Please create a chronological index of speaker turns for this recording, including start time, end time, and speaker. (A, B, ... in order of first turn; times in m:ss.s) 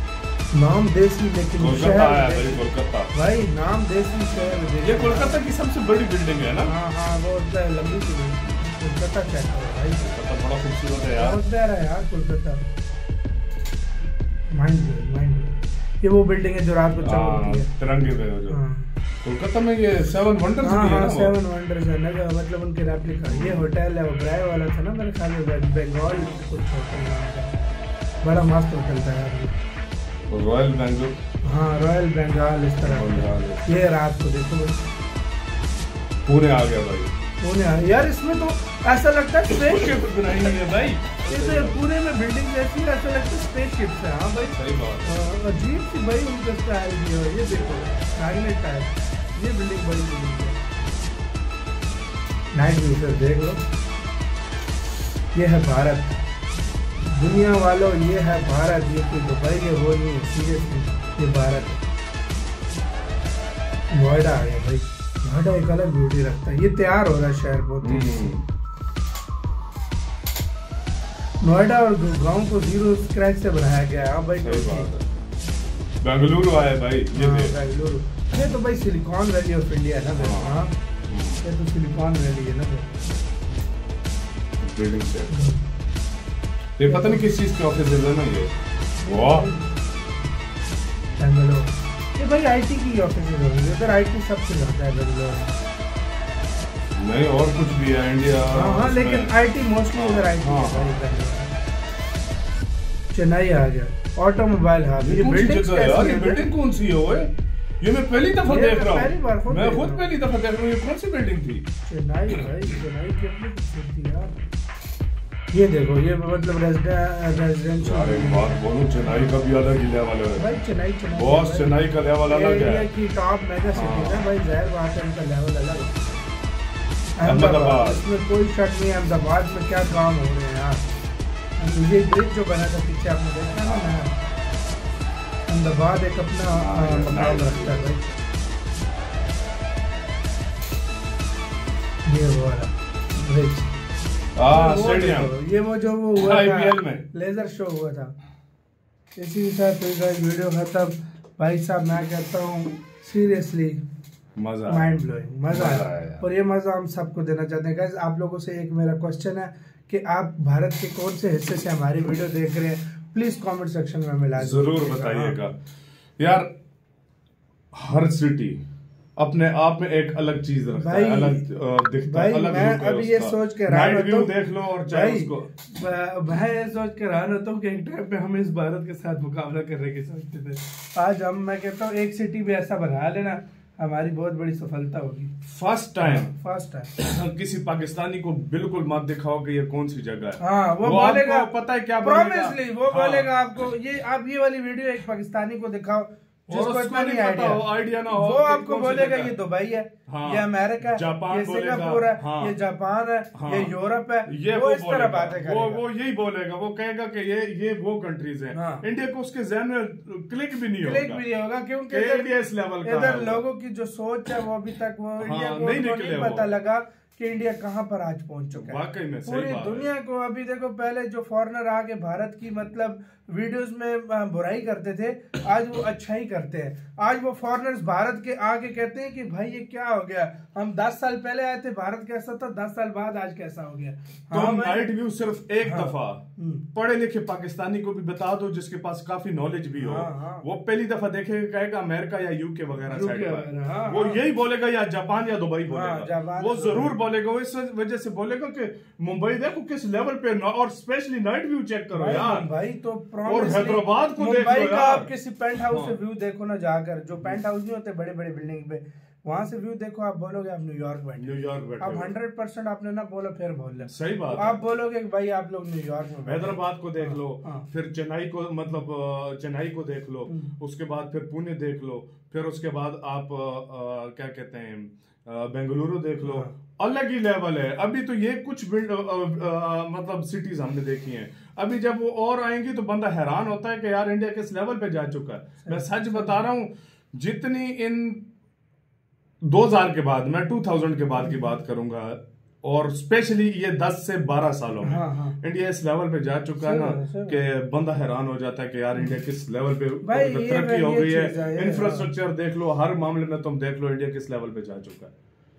0:00.5-0:05.4 A
0:01.6-0:03.1 B
0:04.8-0:06.7 B
0:06.6-0:10.0 A
0:10.0-0:11.4 B
0:11.2-0:12.6 A
0:14.6-0:17.7 A
0:17.0-0:18.6 B
0:18.5-0:18.9 A
0:19.2-0:21.3 B
0:20.6-0:27.5 A
0:23.3-0:23.7 B
0:26.1-0:26.5 B
0:28.2-0:29.5 A
0:30.3-0:31.1 B
0:31.4-0:34.8 A
0:32.8-0:33.6 B
0:36.3-0:37.1 B
0:37.4-0:40.2 A
0:39.5-0:41.8 B
0:41.3-0:50.6 A
0:44.5-0:45.2 B
0:47.4-0:47.9 B
0:52.5-0:53.6 A
0:55.3-0:56.2 A
0:57.0-1:01.8 A
1:03.9-1:08.3 A
1:07.8-1:08.4 B
1:11.4-1:14.9 A
1:14.4-1:15.0 B
1:16.0-1:17.5 B
1:17.2-1:20.7 A
1:20.2-1:21.4 B
1:21.4-1:22.9 A
1:24.6-1:25.5 B
1:25.3-1:25.6 A
1:26.8-1:28.5 B
1:26.8-1:27.2 A
1:29.0-1:29.7 A
1:29.0-1:29.5 B
1:31.2-1:35.5 A
1:37.0-1:39.3 B
1:38.5-1:41.5 A
1:39.9-1:41.0 B
1:43.1-1:46.5 A
1:45.0-1:47.3 B
1:47.8-1:51.6 B
1:48.5-1:50.1 A
1:51.8-1:54.3 A
1:55.5-1:59.4 A
1:57.8-2:00.5 B
2:00.4-2:06.1 A
2:01.1-2:02.9 B
2:03.7-2:04.3 B
2:07.2-2:10.8 A
2:07.2-2:08.0 B
2:11.6-2:14.2 A
2:13.6-2:14.1 B
2:15.5-2:18.1 A
2:16.5-2:17.9 B
2:22.0-2:23.7 A
2:24.4-2:25.3 B
2:24.5-2:28.1 A
2:26.2-2:27.0 B
2:29.2-2:33.8 A
2:34.4-2:35.0 B
2:34.7-2:45.4 A
2:35.5-2:36.2 B
2:44.4-2:45.5 B
2:46.2-2:46.5 B
2:47.7-2:48.6 B
2:49.2-2:55.5 B
2:50.8-2:51.4 A
2:52.1-2:54.3 A
2:54.9-3:05.3 A
3:05.4-3:06.3 B
3:06.0-3:06.9 A
3:07.0-3:13.3 B
3:10.4-3:11.5 A
3:12.0-3:25.8 A
3:16.5-3:19.3 B
3:20.1-3:22.5 B
3:23.3-3:23.7 B
3:24.3-3:31.2 B
3:28.5-3:28.8 A
3:30.8-3:32.3 A
3:31.9-3:33.4 B
3:32.8-3:54.9 A
3:35.2-3:36.5 B
3:38.5-3:39.9 B
3:54.3-3:56.2 B
3:55.6-3:56.6 A
3:56.7-4:12.4 B
3:59.8-4:00.4 A
4:02.9-4:04.2 A
4:05.7-4:06.9 A
4:11.9-4:27.6 A
4:13.2-4:15.1 B
4:15.6-4:15.9 B
4:21.2-4:22.1 B
4:23.8-4:24.6 B
4:26.2-4:48.2 B
4:30.3-4:30.5 A
4:36.2-4:36.5 A
4:45.6-4:46.4 A
4:49.4-5:05.1 B
4:54.8-4:55.4 A
4:56.6-4:57.4 A
5:00.0-5:02.1 A